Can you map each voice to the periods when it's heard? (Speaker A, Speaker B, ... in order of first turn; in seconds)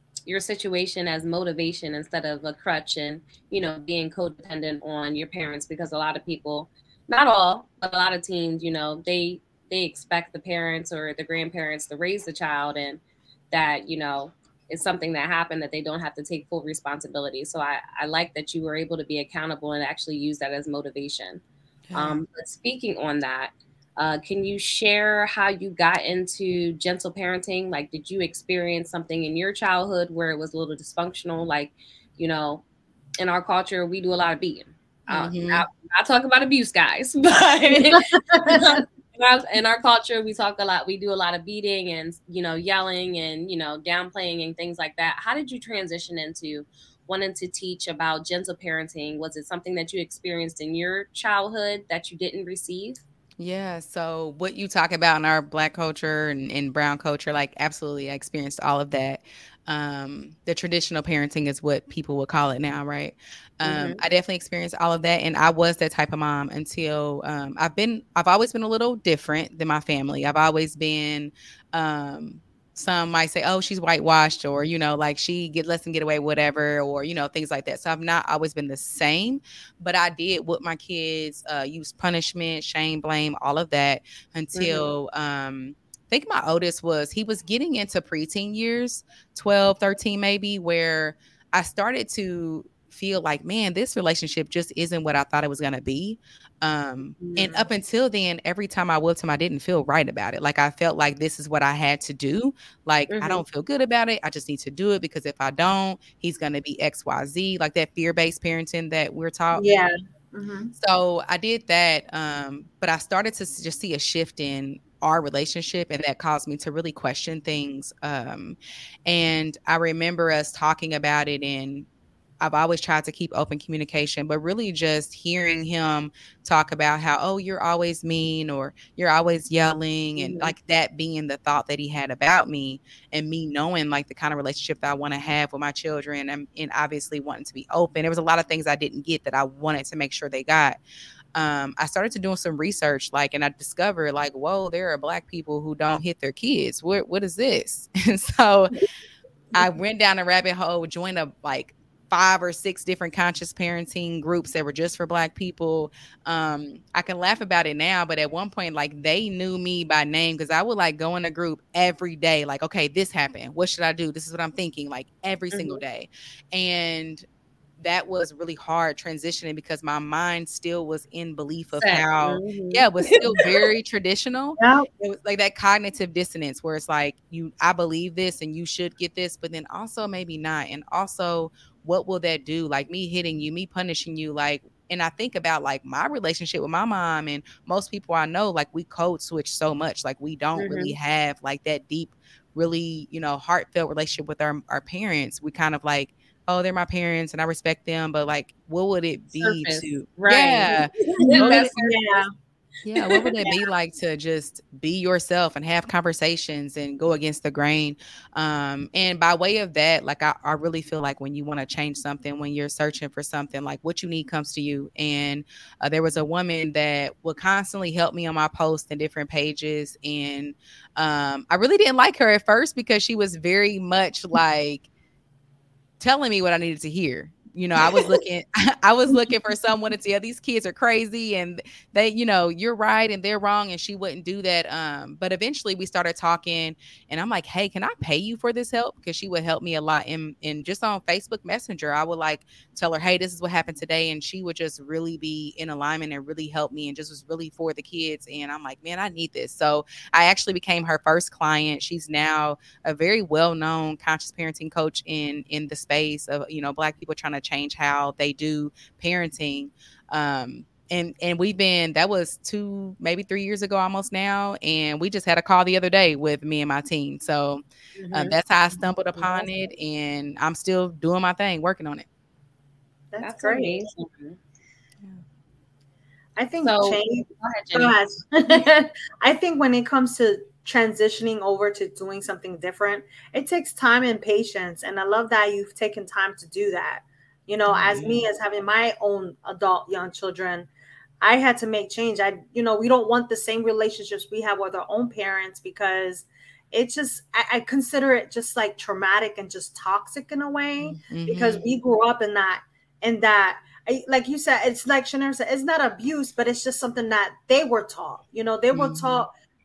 Speaker A: 0.3-21.4, 21.9-32.6, 33.2-53.0, 63.6-64.0, 84.5-84.9, 97.2-97.7, 103.1-103.4, 130.2-130.5, 165.5-165.8, 171.8-173.6, 190.6-190.9, 199.4-202.2, 203.0-203.6, 268.0-268.4, 269.2-269.4, 273.2-274.4, 276.6-277.9
Speaker B: 21.9-22.2, 35.1-35.6, 53.4-109.7, 110.8-121.9, 122.4-140.8, 141.3-148.7, 149.6-167.2, 167.8-201.8, 202.8-224.8, 226.0-272.1, 287.7-288.0, 300.9-301.6, 308.7-309.3
Speaker C: 37.7-38.8, 109.5-110.7, 174.6-174.9, 201.2-202.3, 273.1-273.8, 276.4-290.7, 291.2-309.3